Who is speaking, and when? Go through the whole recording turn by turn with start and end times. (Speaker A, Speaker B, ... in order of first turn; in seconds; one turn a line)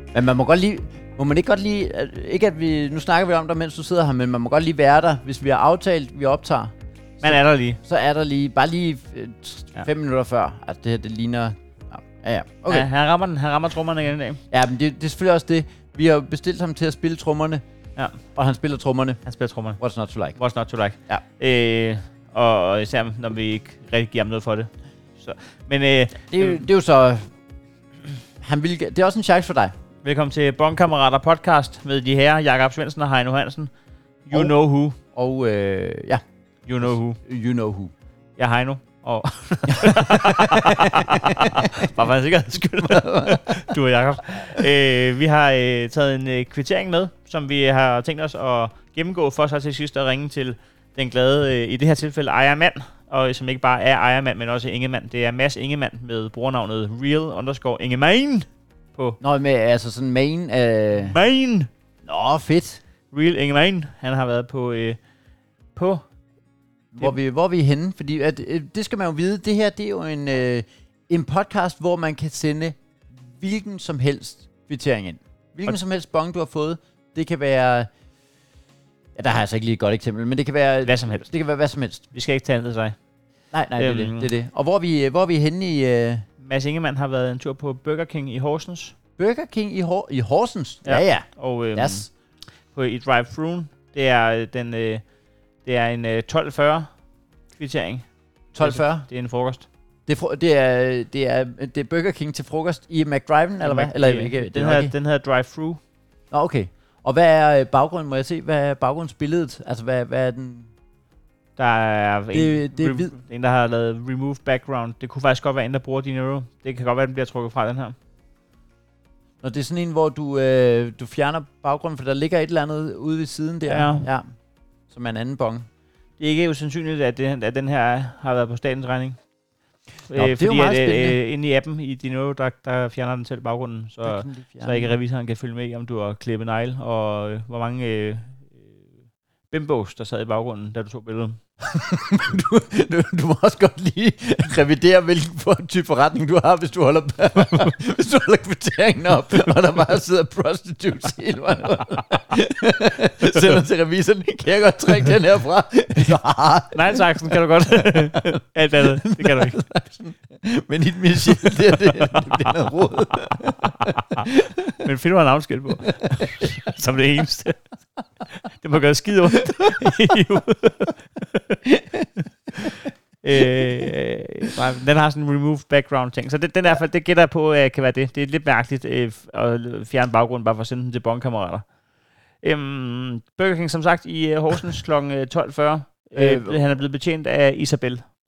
Speaker A: 0.1-12.9
Speaker B: 7.2-7.8
Speaker B: 12.7-14.4
Speaker A: 14.5-17.6
Speaker A: 18.4-19.2
Speaker B: 19.2-19.8
Speaker A: 19.8-20.4
Speaker B: 20.4-26.6
Speaker A: 26.3-27.3
Speaker A: 28.4-29.7
Speaker B: 30.0-33.7
Speaker B: 34.2-35.0
Speaker A: 35.1-36.2
Speaker B: 36.7-37.2
Speaker A: 36.8-37.9
Speaker B: 38.4-59.2
Speaker A: 39.7-41.9
Speaker A: 42.5-43.8
Speaker A: 44.4-44.7
Speaker A: 59.2-61.2
Speaker B: 61.0-61.7
Speaker A: 62.0-62.8
Speaker B: 63.1-65.0
Speaker B: 65.8-66.1
Speaker A: 66.9-77.9
Speaker A: 79.2-82.1
Speaker B: 80.8-81.3
Speaker B: 82.1-83.0
Speaker A: 83.5-86.3
Speaker B: 83.8-84.3
Speaker B: 86.4-89.0
Speaker A: 89.2-92.1
Speaker B: 90.8-92.1
Speaker B: 92.7-95.1
Speaker B: 95.6-96.9
Speaker B: 97.6-99.7
Speaker A: 98.5-99.1
Speaker A: 100.1-105.0
Speaker B: 103.6-105.8
Speaker A: 106.3-110.7
Speaker B: 111.6-118.0
Speaker A: 112.3-113.2
Speaker A: 119.4-124.3
Speaker B: 123.7-124.1
Speaker A: 124.9-125.7
Speaker B: 126.2-129.2
Speaker B: 130.1-138.9
Speaker A: 130.1-131.2
Speaker A: 134.0-134.9
Speaker B: 139.5-141.4
Speaker A: 141.7-164.8
Speaker B: 156.7-159.6
Speaker B: 161.9-162.5
Speaker B: 163.6-164.3
Speaker B: 164.8-167.7
Speaker A: 165.9-166.8
Speaker B: 168.4-171.6
Speaker A: 169.6-170.2
Speaker A: 171.7-172.1
Speaker B: 172.6-181.7
Speaker A: 173.4-173.9
Speaker B: 182.4-188.1
Speaker A: 186.2-186.6